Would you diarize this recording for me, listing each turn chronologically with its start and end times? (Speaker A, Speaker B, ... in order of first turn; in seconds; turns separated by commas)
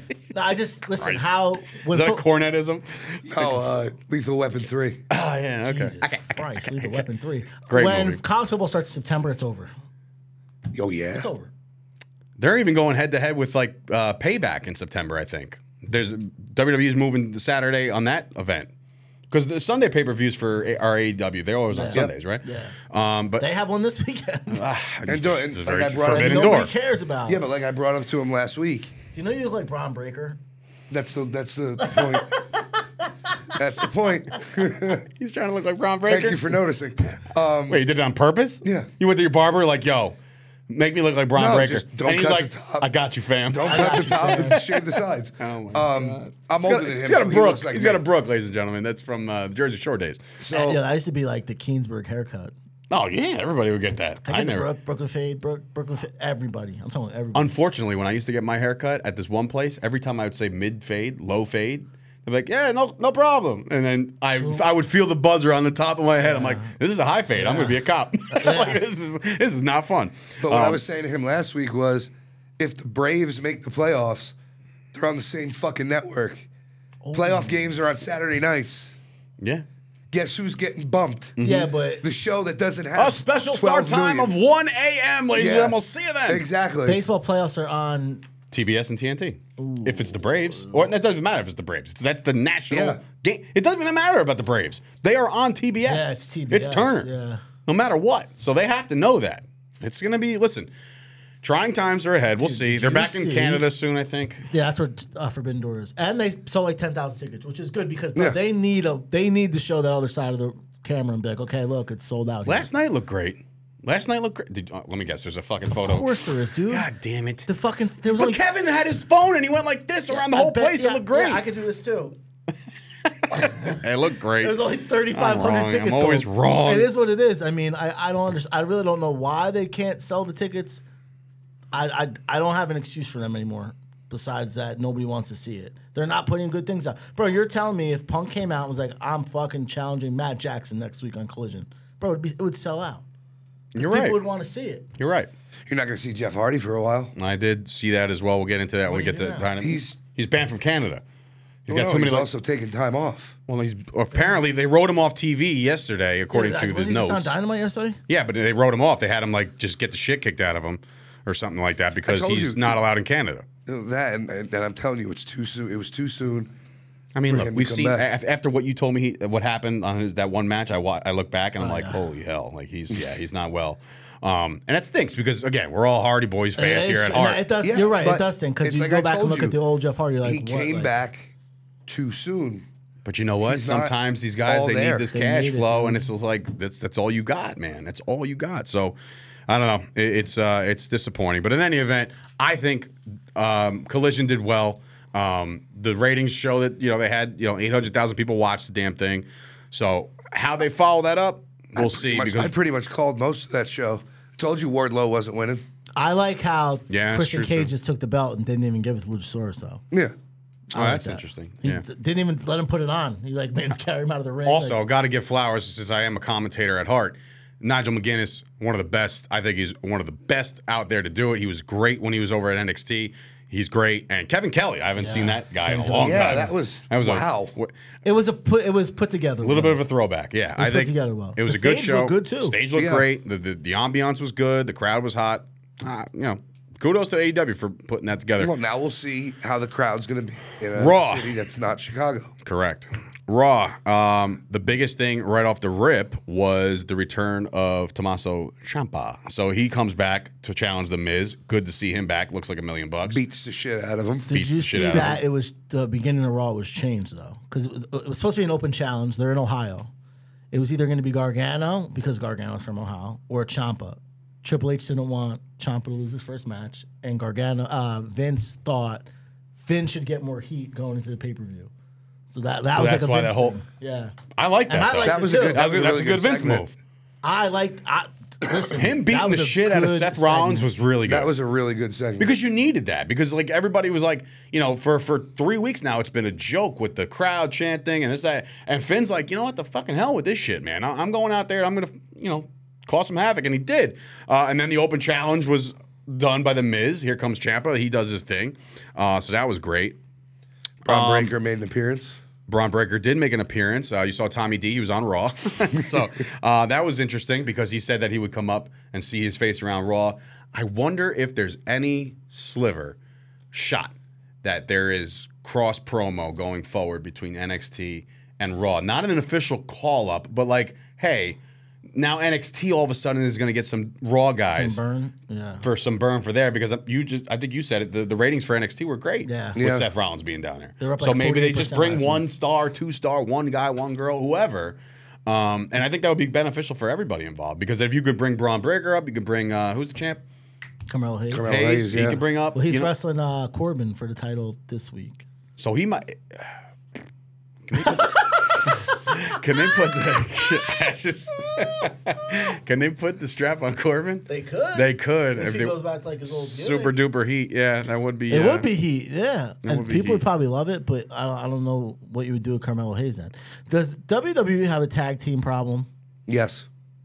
Speaker A: 0.3-2.2, Speaker B: 1.0-3.6, Speaker C: 3.2-5.0, Speaker B: 5.1-7.0, Speaker A: 5.6-9.7, Speaker B: 7.7-8.2, Speaker C: 10.7-11.3, Speaker A: 11.1-11.5, Speaker B: 12.4-18.7, Speaker B: 19.3-23.4, Speaker A: 21.7-22.7, Speaker A: 23.4-24.6, Speaker B: 24.5-26.7, Speaker C: 25.1-26.6, Speaker A: 26.0-27.4, Speaker C: 27.3-28.9, Speaker A: 29.1-30.4, Speaker C: 30.9-32.4, Speaker A: 31.8-32.6, Speaker C: 33.5-35.0, Speaker B: 35.2-36.4, Speaker C: 36.0-37.8, Speaker B: 37.7-40.1, Speaker C: 38.6-38.9, Speaker B: 40.7-44.9, Speaker C: 41.3-42.9, Speaker C: 43.5-48.0, Speaker A: 43.6-44.6, Speaker B: 45.4-50.2, Speaker C: 50.4-50.8, Speaker A: 50.5-52.5, Speaker B: 52.9-54.7, Speaker A: 54.2-57.5, Speaker B: 57.3-70.8, Speaker A: 64.4-64.6, Speaker A: 66.2-66.7, Speaker A: 67.3-67.8, Speaker A: 68.3-68.8, Speaker C: 70.4-74.3, Speaker C: 74.9-76.5, Speaker A: 77.0-77.7, Speaker C: 77.1-78.9, Speaker C: 80.1-81.4, Speaker B: 81.4-81.7, Speaker A: 81.4-82.0, Speaker C: 82.0-84.3, Speaker B: 82.9-86.4, Speaker C: 85.3-87.0, Speaker A: 86.8-88.2, Speaker B: 88.5-97.1, Speaker A: 89.6-90.9, Speaker C: 92.7-93.0, Speaker A: 95.8-97.4, Speaker B: 97.7-100.7, Speaker B: 101.4-104.5, Speaker A: 102.4-103.6, Speaker A: 104.5-112.7, Speaker B: 112.5-117.5, Speaker A: 115.8-116.9, Speaker A: 117.5-118.4, Speaker B: 118.1-121.4, Speaker A: 120.1-122.2, Speaker B: 123.2-126.9, Speaker A: 123.3-123.8, Speaker A: 124.4-130.8, Speaker A: 131.7-143.0, Speaker B: 143.7-144.2, Speaker A: 143.8-144.9, Speaker B: 145.0-145.3, Speaker C: 145.7-147.1, Speaker B: 147.2-151.0, Speaker A: 148.9-149.5, Speaker C: 149.6-150.0, Speaker B: 151.7-152.3, Speaker C: 151.7-153.4, Speaker B: 153.5-157.3, Speaker A: 156.3-158.0, Speaker B: 158.1-163.4, Speaker C: 162.1-162.8, Speaker C: 163.7-166.5, Speaker B: 167.1-177.4, Speaker C: 167.3-168.1, Speaker A: 171.6-172.0, Speaker A: 176.6-180.9, Speaker C: 177.6-179.6, Speaker C: 180.2-181.3, Speaker C: 181.8-182.7, Speaker B: 183.0-188.9, Speaker C: 183.4-183.9, Speaker C: 184.4-185.1, Speaker A: 185.1-186.1, Speaker B: 189.5-202.5, Speaker C: 201.8-205.6, Speaker A: 205.9-209.8, Speaker B: 206.9-207.7, Speaker A: 210.7-214.8, Speaker B: 210.7-211.8, Speaker B: 214.4-227.7, Speaker A: 225.0-226.5, Speaker C: 226.0-227.5, Speaker A: 228.0-229.8, Speaker B: 229.4-238.5, Speaker A: 230.6-232.6, Speaker C: 232.7-233.1, Speaker C: 238.4-242.3, Speaker B: 240.7-241.3, Speaker B: 242.4-253.2, Speaker C: 253.1-255.2, Speaker A: 254.3-259.9, Speaker B: 254.3-255.2, Speaker A: 260.5-269.1, Speaker A: 269.6-271.7, Speaker A: 272.3-274.2, Speaker B: 272.7-273.6, Speaker B: 274.4-276.7, Speaker A: 274.7-275.6, Speaker C: 275.0-276.6, Speaker A: 277.2-280.7, Speaker B: 278.7-281.3, Speaker C: 281.1-282.3, Speaker B: 282.2-300.0, Speaker B: 300.8-301.3, Speaker C: 300.9-302.2, Speaker B: 302.5-312.9, Speaker B: 313.5-321.4, Speaker B: 321.9-324.8, Speaker A: 324.5-325.6, Speaker B: 325.6-340.2, Speaker A: 329.2-329.6, Speaker C: 329.6-329.9, Speaker A: 330.8-332.2, Speaker A: 340.9-341.5, Speaker C: 341.3-342.2, Speaker B: 341.4-342.9, Speaker A: 342.5-345.2, Speaker B: 345.6-346.5, Speaker B: 347.7-358.7, Speaker A: 347.8-348.7, Speaker A: 354.3-356.9, Speaker A: 358.3-365.9, Speaker B: 359.6-360.2, Speaker C: 366.3-366.7